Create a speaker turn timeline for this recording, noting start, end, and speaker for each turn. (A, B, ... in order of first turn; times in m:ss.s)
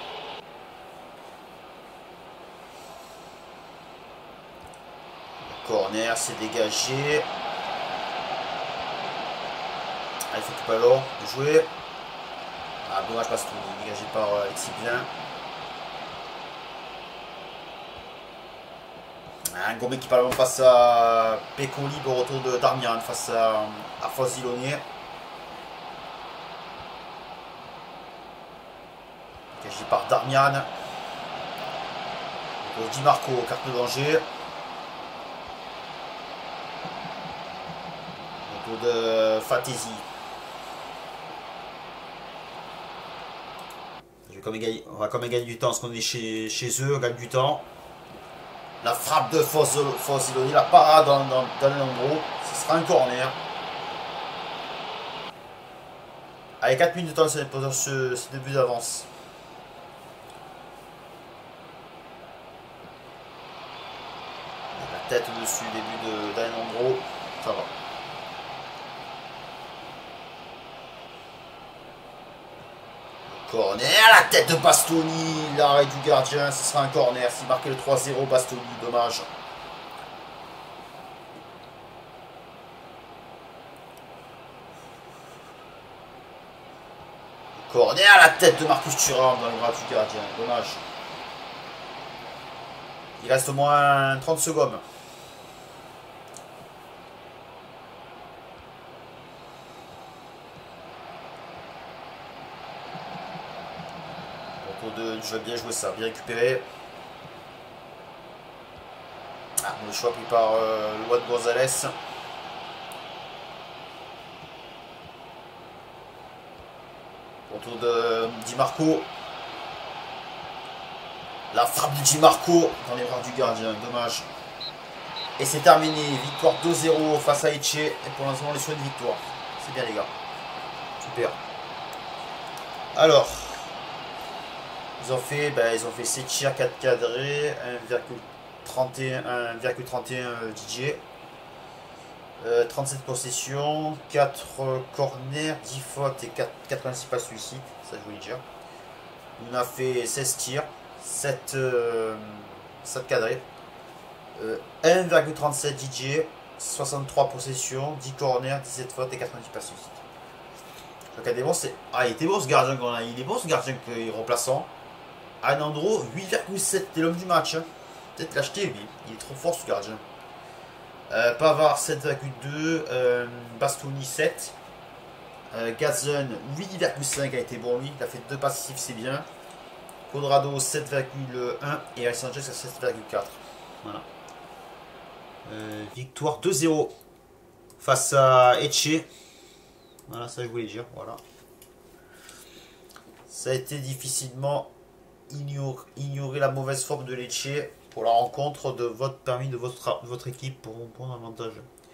0:05.4-0:07.3 A
0:10.3-0:11.7 A
0:12.8-0:15.1 A
0:19.5-0:24.8 A
0:29.5-0:30.7 A
0:32.6-0:34.3 A
0:38.4-0:40.1 A
0:44.3-0:47.7 A
0:48.8-0:53.4 A
0:56.6-0:59.1 A
1:04.7-1:07.7 A
1:13.3-1:19.3 A
1:27.6-1:30.8 A
1:33.2-1:34.8 A
1:44.6-1:46.7 A
1:49.6-1:52.0 A
1:57.5-1:59.1 A
2:01.5-2:04.3 A
2:05.4-2:10.1 A
2:11.0-2:11.4 A
2:13.0-2:13.6 A
2:15.0-2:21.0 A
2:22.4-2:28.4 A
2:29.4-2:33.4 A
2:34.4-2:40.0 A
2:41.1-2:44.7 A
2:45.4-2:50.0 A
2:51.1-2:54.6 A
2:55.5-2:59.3 A
3:00.1-3:04.1 A
3:05.5-3:07.0 A
3:07.8-3:09.1 A
3:10.1-3:11.2 A
3:13.3-3:14.7 A
3:15.3-3:21.7 A